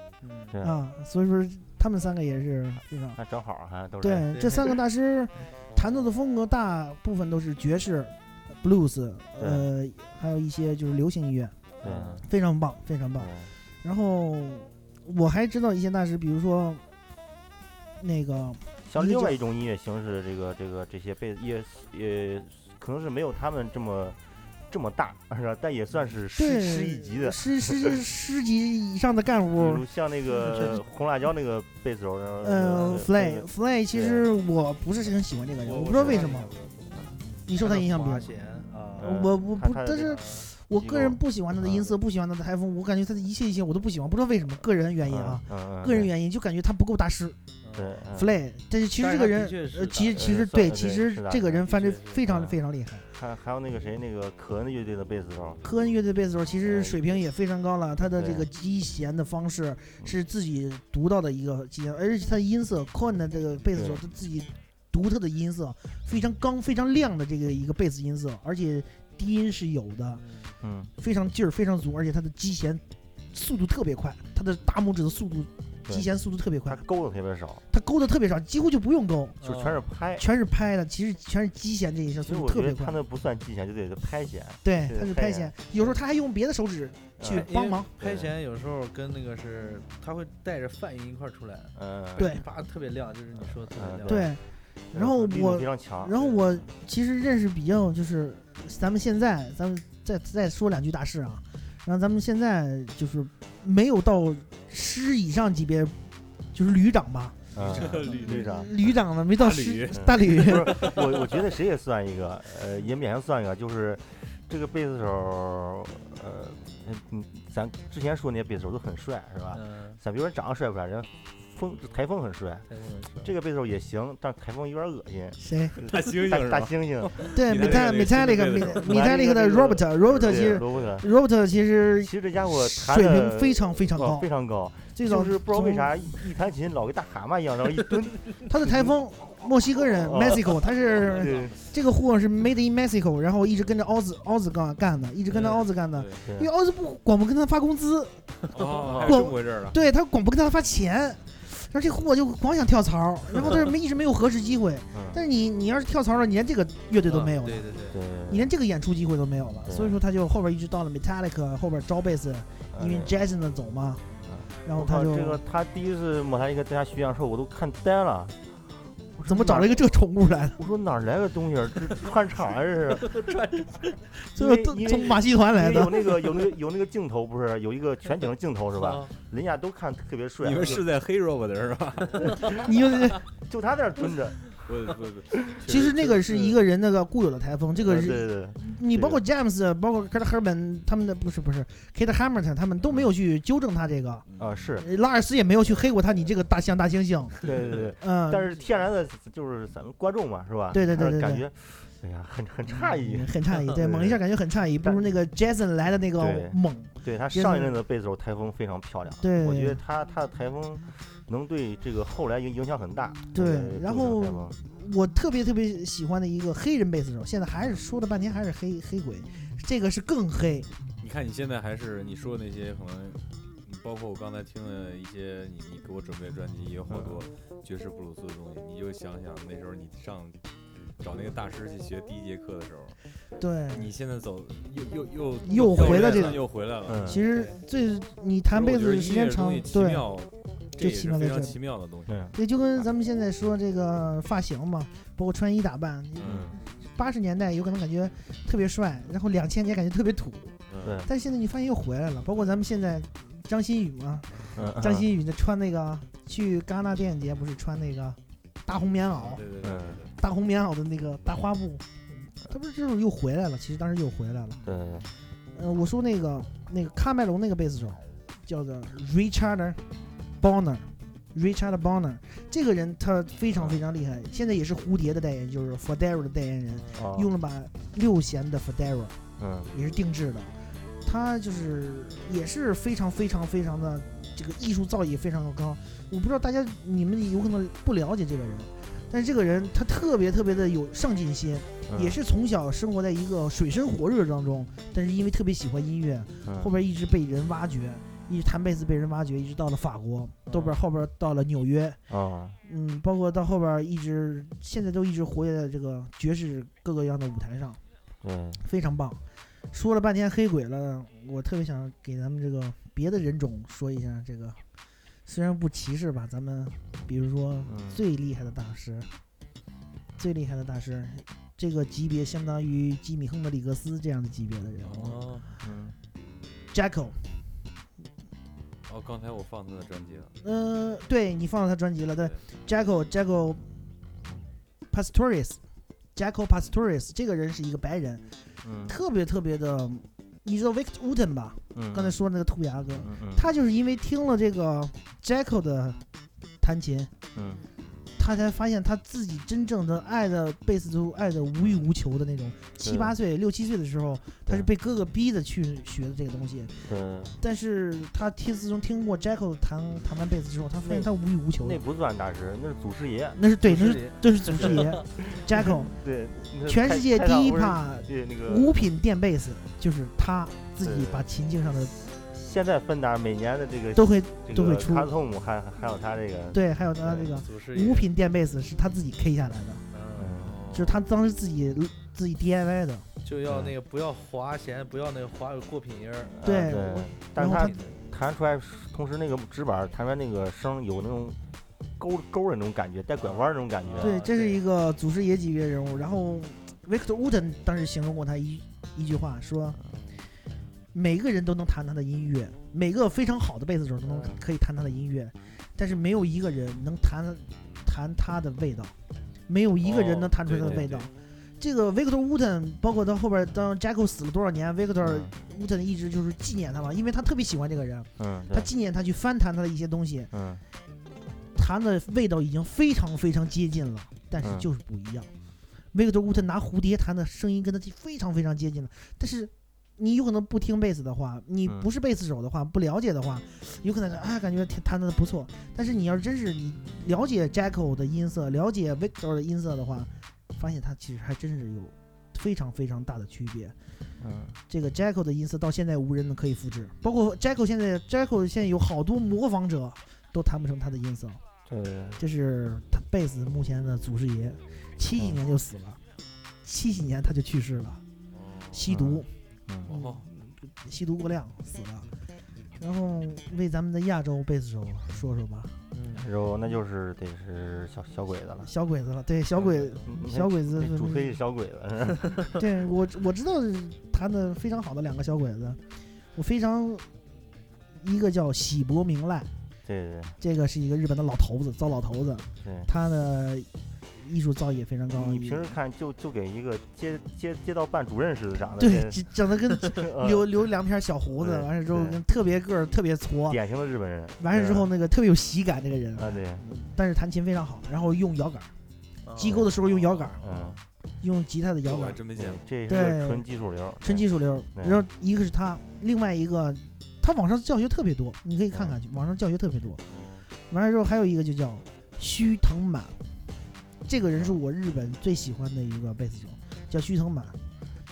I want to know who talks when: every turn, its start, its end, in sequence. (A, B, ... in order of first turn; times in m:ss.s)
0:00.2-0:00.6 A
0:00.5-0:00.8 B
0:00.6-0:03.2 C
0:03.1-0:04.4 B
0:04.0-0:11.6 C
0:04.3-0:04.7 A
0:09.4-0:09.7 B
0:11.8-0:12.2 B
0:11.8-0:12.2 A
0:12.2-0:13.3 C
0:13.2-0:13.5 B
0:13.8-0:16.8 C
0:18.0-0:19.4 C
0:18.8-0:24.2 B
0:24.7-0:28.0 B
0:26.3-0:29.8 C
0:29.6-0:34.2 B
0:32.4-0:36.5 C
0:35.6-0:39.2 A
0:35.9-0:36.3 B
0:37.4-0:38.3 C
0:39.0-0:42.0 B
0:39.0-0:47.4 C
0:40.0-0:40.5 A
0:45.0-0:46.1 B
0:47.6-0:48.0 A
0:47.7-0:48.3 B
0:48.1-0:53.0 C
0:49.0-0:50.4 A
0:50.1-0:51.6 B
0:51.5-0:52.2 A
0:52.2-0:52.6 B
0:53.1-0:55.7 B
0:55.6-1:10.2 C
0:56.6-0:57.2 B
0:58.1-0:58.5 B
1:03.7-1:04.0 B
1:10.1-1:10.6 A
1:10.6-1:10.9 B
1:11.0-1:16.8 C
1:16.6-1:17.6 B
1:17.7-1:19.4 C
1:19.4-1:19.8 A
1:19.4-1:20.2 B
1:20.2-1:23.0 C
1:22.2-1:25.5 B
1:24.6-1:27.9 C
1:25.7-1:26.0 A
1:27.2-1:28.3 B
1:27.2-1:34.3 A
1:31.7-1:32.3 B
1:32.2-1:32.4 C
1:33.5-1:34.4 B
1:34.0-1:46.0 C
1:34.9-1:36.3 B
1:36.2-1:36.4 A
1:46.5-1:50.9 C
1:47.5-1:48.7 B
1:47.6-1:51.3 D
1:49.9-2:02.7 B
1:59.5-2:00.0 A
2:02.7-2:03.3 A
2:03.2-2:08.0 B
2:05.4-2:05.8 C
2:05.7-2:09.2 D
2:07.3-2:14.3 C
2:08.5-2:11.1 B
2:10.3-2:10.9 D
2:12.0-2:18.9 B
2:14.9-2:16.1 C
2:18.5-2:28.2 C
2:20.0-2:21.6 B
2:25.3-2:26.2 D
2:26.2-2:26.5 B
2:28.5-2:29.8 D
2:28.8-2:29.2 B
2:29.0-2:37.7 C
2:33.4-2:33.7 B
2:34.9-2:35.2 B
2:37.0-2:38.0 A
2:37.9-2:38.5 B
2:38.3-2:44.0 C
2:39.6-2:40.0 B
2:42.7-2:43.1 B
2:44.2-2:48.6 B
2:44.6-2:45.4 C
2:49.1-2:49.8 B
2:49.2-2:50.6 C
2:50.6-2:53.1 B
2:52.9-2:53.9 A
2:54.2-2:56.3 C
2:54.3-3:00.8 B
2:58.8-2:59.1 A
3:00.4-3:02.7 D
3:02.5-3:03.2 C
3:03.4-3:04.7 B
3:04.6-3:06.6 D
3:05.4-3:05.8 B
3:05.6-3:14.2 C
3:07.8-3:09.2 B
3:14.3-3:14.7 D
3:14.4-3:14.9 B
3:14.8-3:17.4 C
3:17.4-3:24.2 B
3:18.0-3:18.4 C
3:20.7-3:21.4 C
3:23.0-3:27.8 C
3:26.2-3:34.6 B
3:29.2-3:29.8 C
3:33.3-3:40.7 C
3:41.0-3:50.4 D
3:46.9-3:47.2 B
3:51.0-3:53.0 D
3:53.4-3:53.9 C
3:53.7-3:57.2 D
3:55.4-3:56.5 C
3:56.8-3:57.2 B
3:57.0-4:00.1 C
3:57.3-3:57.6 A
3:58.5-4:02.3 D
4:00.8-4:01.6 C
4:02.1-4:02.4 B
4:02.3-4:19.4 C
4:06.2-4:06.6 D
4:06.2-4:06.6 B
4:10.7-4:11.0 D
4:10.8-4:11.1 B
4:14.5-4:15.1 B
4:19.1-4:20.1 D
4:19.6-4:20.0 B
4:20.2-4:24.6 C
4:24.6-4:25.1 B
4:25.5-4:29.8 C
4:30.4-4:39.2 C
4:33.5-4:33.8 B
4:36.7-4:37.0 A
4:36.9-4:37.3 B
4:39.4-4:39.7 B
4:39.7-4:40.5 C
4:41.0-5:02.0 C
4:51.9-4:52.2 B
4:56.4-4:56.7 B
5:00.4-5:00.8 A
5:02.1-5:02.6 B
5:02.6-5:07.8 C
5:08.2-5:08.6 B
5:08.6-5:09.2 C
5:09.7-5:14.6 C
5:15.2-5:19.1 C
5:17.6-5:18.0 B
5:20.2-5:25.3 C
5:24.8-5:25.5 D
5:25.6-5:25.9 B
5:26.7-5:27.2 C
5:28.9-5:30.4 D
5:30.4-5:33.7 C
5:34.9-5:35.6 C
5:36.1-5:38.2 C
5:38.6-5:39.0 B
5:38.9-5:46.0 C
5:41.7-5:42.2 B
5:42.9-5:43.5 B
5:46.6-5:47.1 C
5:47.3-5:47.6 B
5:48.2-5:56.9 C
5:52.8-5:53.1 B
5:56.8-5:57.3 B
5:57.4-6:01.8 C
6:00.8-6:03.4 B
6:03.4-6:05.9 C
6:03.6-6:05.0 A
6:04.5-6:08.8 B
6:06.6-6:11.9 C
6:10.8-6:11.3 B
6:12.2-6:17.3 B
6:13.9-6:15.1 C
6:16.5-6:19.8 C
6:17.3-6:18.1 A
6:19.9-6:20.4 A
6:20.2-6:20.6 B
6:20.4-6:21.0 D
6:20.7-6:23.1 C
6:23.2-6:26.3 A
6:23.5-6:23.7 B
6:26.3-6:31.4 B
6:26.4-6:27.8 C
6:27.4-6:27.9 A
6:32.0-6:34.2 B
6:33.2-6:34.6 A
6:34.0-6:39.8 C
6:40.9-6:48.9 C
6:44.1-6:44.4 A
6:49.5-7:00.3 C
6:49.8-6:51.1 D
6:50.5-6:50.8 B
6:55.0-6:55.3 B
6:58.2-6:58.7 B
7:00.3-7:00.6 B
7:01.5-7:05.3 C
7:04.4-7:04.7 B
7:05.9-7:23.7 C
7:24.2-7:24.6 B
7:24.7-7:31.4 C
7:31.6-7:32.2 B
7:32.2-7:36.0 C
7:35.1-7:35.4 B
7:36.6-7:38.0 C
7:38.3-7:38.9 D
7:38.7-7:39.3 C
7:38.9-7:39.9 B
7:39.8-7:40.2 D
7:39.9-7:42.1 C
7:42.8-7:45.7 C
7:45.9-7:46.2 A
7:46.1-7:48.7 B
7:48.6-7:51.3 C
7:50.0-7:52.6 B
7:52.6-7:55.8 C
7:56.3-7:57.0 C
7:58.0-7:59.5 C
7:59.8-8:00.4 B
8:00.4-8:05.8 C
8:02.6-8:02.9 B
8:05.1-8:09.3 B
8:08.8-8:13.6 C
8:09.8-8:10.6 B
8:11.4-8:12.2 B
8:13.5-8:14.9 B
8:14.4-8:18.7 C
8:16.1-8:16.6 B
8:19.2-8:19.7 A
8:19.4-8:20.4 C
8:19.4-8:19.7 B
8:20.2-8:20.7 D
8:20.4-8:20.8 B
8:21.2-8:22.2 C
8:21.8-8:22.6 D
8:22.3-8:25.0 B
8:22.9-8:23.4 C
8:24.0-8:30.0 C
8:28.7-8:29.0 B
8:30.1-8:30.5 D
8:30.7-8:33.2 C
8:34.0-8:37.6 C